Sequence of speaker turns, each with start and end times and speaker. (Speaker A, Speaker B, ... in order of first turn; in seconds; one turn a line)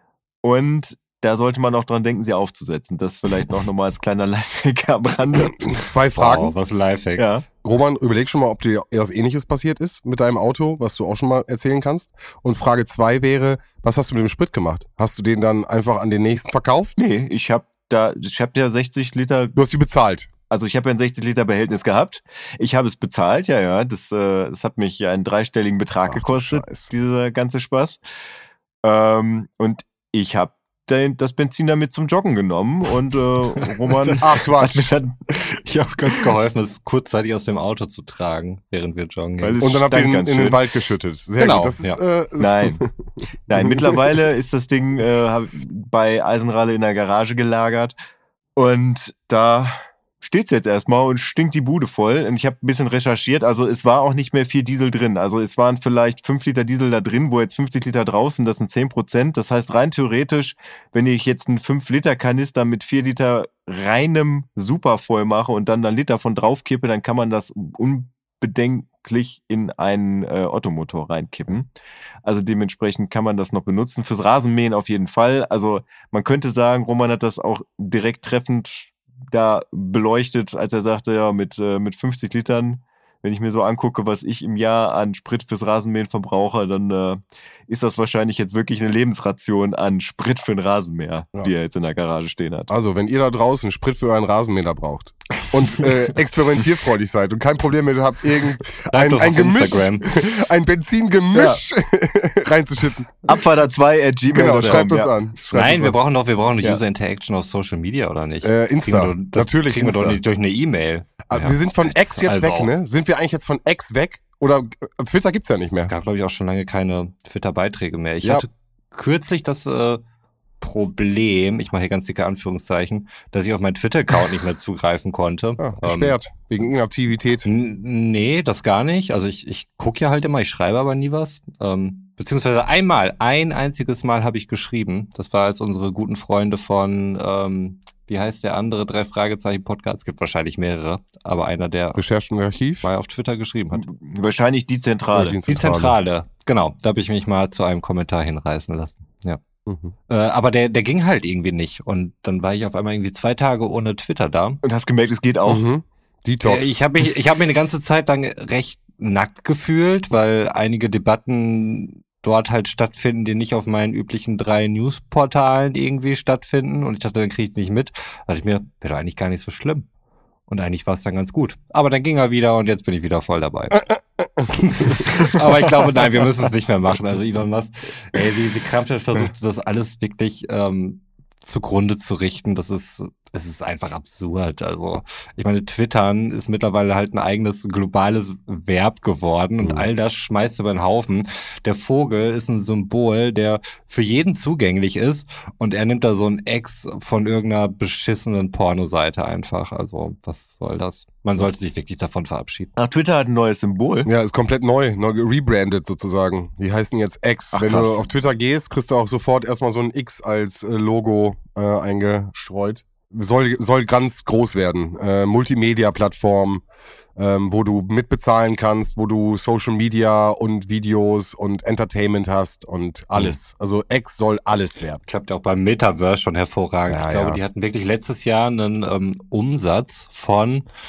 Speaker A: 0.4-5.8
Speaker B: 5.5-6.5
Speaker C: 6.2-7.2
Speaker A: 7.2-7.4
Speaker B: 7.6-17.0
Speaker A: 17.0-19.6
Speaker B: 19.6-20.3
Speaker A: 20.5-28.0
Speaker B: 26.1-26.9
Speaker A: 28.8-35.4
Speaker C: 33.9-34.3
Speaker B: 34.2-34.9
Speaker C: 35.6-39.6
Speaker A: 39.4-40.6
Speaker B: 39.6-42.9
Speaker C: 41.4-42.0
Speaker A: 42.4-42.8
Speaker A: 43.5-48.0
Speaker B: 43.5-44.2
Speaker A: 48.5-71.7
Speaker A: 72.2-92.7
Speaker B: 92.7-103.1
Speaker C: 98.9-100.0
Speaker A: 101.3-101.6
Speaker A: 103.3-105.1
Speaker B: 104.3-106.0
Speaker C: 105.4-112.7
Speaker B: 108.4-110.2
Speaker B: 111.3-115.9
Speaker C: 115.8-120.0
Speaker C: 120.6-126.1
Speaker B: 125.6-127.5
Speaker C: 127.5-142.0
Speaker B: 141.9-142.9
Speaker C: 142.8-143.9
Speaker A: 143.7-145.4
Speaker B: 145.1-145.9
Speaker C: 145.5-149.4
Speaker B: 149.7-149.9
Speaker C: 150.1-154.6
Speaker A: 154.6-155.6
Speaker B: 155.4-156.8
Speaker C: 156.4-169.8
Speaker C: 170.5-173.9
Speaker B: 174.4-175.0
Speaker C: 174.5-202.7
Speaker B: 189.6-189.9
Speaker A: 202.8-204.1
Speaker B: 204.1-216.6
Speaker A: 207.5-207.9
Speaker B: 217.2-225.0
Speaker C: 225.1-230.7
Speaker B: 226.9-227.4